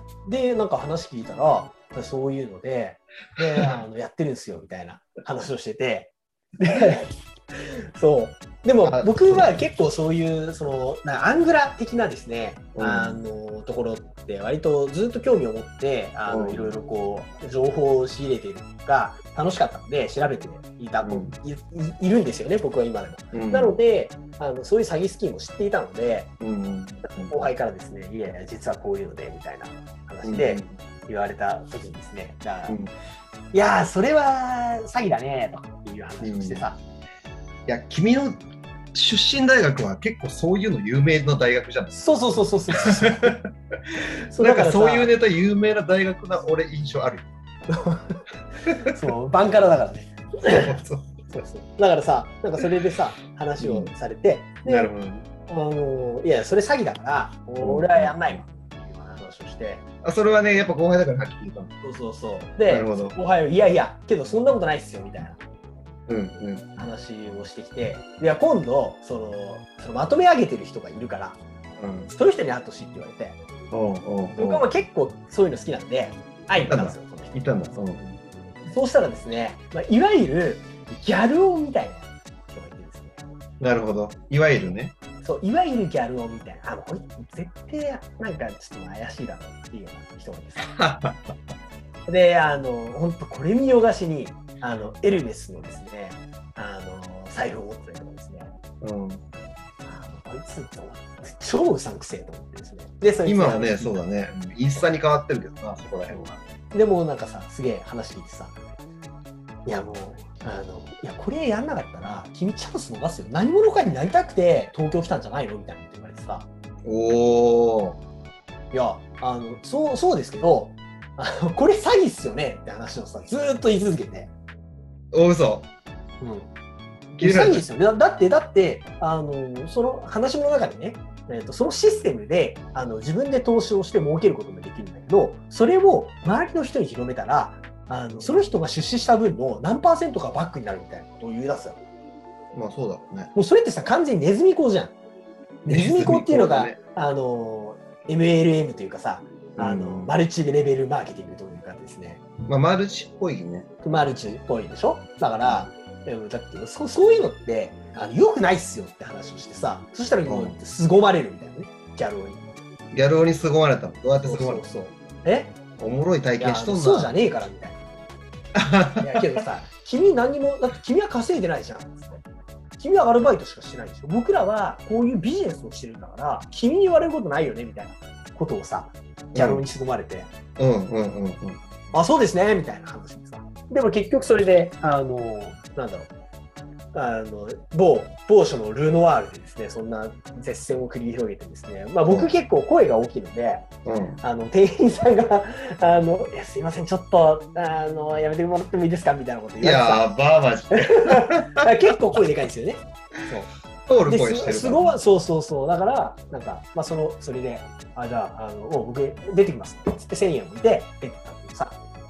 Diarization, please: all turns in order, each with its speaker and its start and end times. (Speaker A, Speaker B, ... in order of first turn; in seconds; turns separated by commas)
Speaker A: 0.2-26.3, Speaker B: 8.8-9.6, Speaker B: 12.7-13.2, Speaker B: 16.3-16.8, Speaker B: 21.0-21.3, Speaker B: 23.3-23.8, Speaker B: 26.4-27.4, Speaker A: 27.0-32.8, Speaker B: 30.2-30.7, Speaker A: 33.5-36.8, Speaker B: 36.2-36.6, Speaker B: 37.7-38.4, Speaker B: 38.9-42.0, Speaker A: 41.9-43.4, Speaker B: 42.7-43.5, Speaker A: 44.3-45.1, Speaker B: 44.3-47.3, Speaker A: 47.7-50.7, Speaker B: 50.4-51.2, Speaker A: 51.3-54.9, Speaker B: 53.6-53.9, Speaker B: 54.6-55.3, Speaker A: 55.5-59.8, Speaker B: 57.6-58.4, Speaker B: 60.0-61.7, Speaker A: 61.8-65.4, Speaker B: 62.7-63.1, Speaker B: 66.1-66.8, Speaker A: 66.8-71.4, Speaker B: 71.8-72.1, Speaker A: 72.1-73.4, Speaker B: 73.7-74.7, Speaker A: 74.3-77.4, Speaker B: 76.5-78.2, Speaker A: 78.7-83.2, Speaker B: 83.6-84.9, Speaker A: 85.2-90.7, Speaker B: 90.6-91.3, Speaker A: 92.1-98.5, Speaker B: 98.8-99.2, Speaker A: 99.8-104.0, Speaker B: 103.2-106.4, Speaker A: 106.1-108.6, Speaker A: 109.7-116.5, Speaker B: 116.8-118.0, Speaker A: 118.7-124.3, Speaker B: 125.1-125.7, Speaker A: 126.2-126.5, Speaker B: 127.2-127.6, Speaker A: 127.2-141.8, Speaker B: 142.5-143.3, Speaker A: 143.3-144.9, Speaker A: 145.6-152.2, Speaker B: 145.7-146.8, Speaker B: 149.6-150.1, Speaker B: 152.4-153.7, Speaker A: 153.8-162.4, Speaker B: 160.2-160.6, Speaker B: 162.9-164.6, Speaker A: 164.2-165.5, Speaker B: 165.8-167.1, Speaker A: 166.4-167.8, Speaker B: 168.5-169.2, Speaker A: 169.0-172.2, Speaker A: 172.8-180.3, Speaker B: 179.3-179.6, Speaker B: 180.6-181.7, Speaker A: 181.9-186.1, Speaker A: 186.9-193.7, Speaker B: 192.1-192.3, Speaker B: 193.8-194.2, Speaker A: 194.2-200.1, Speaker B: 199.6-201.7, Speaker A: 200.7-203.5, Speaker B: 203.8-205.0, Speaker A: 204.1-211.8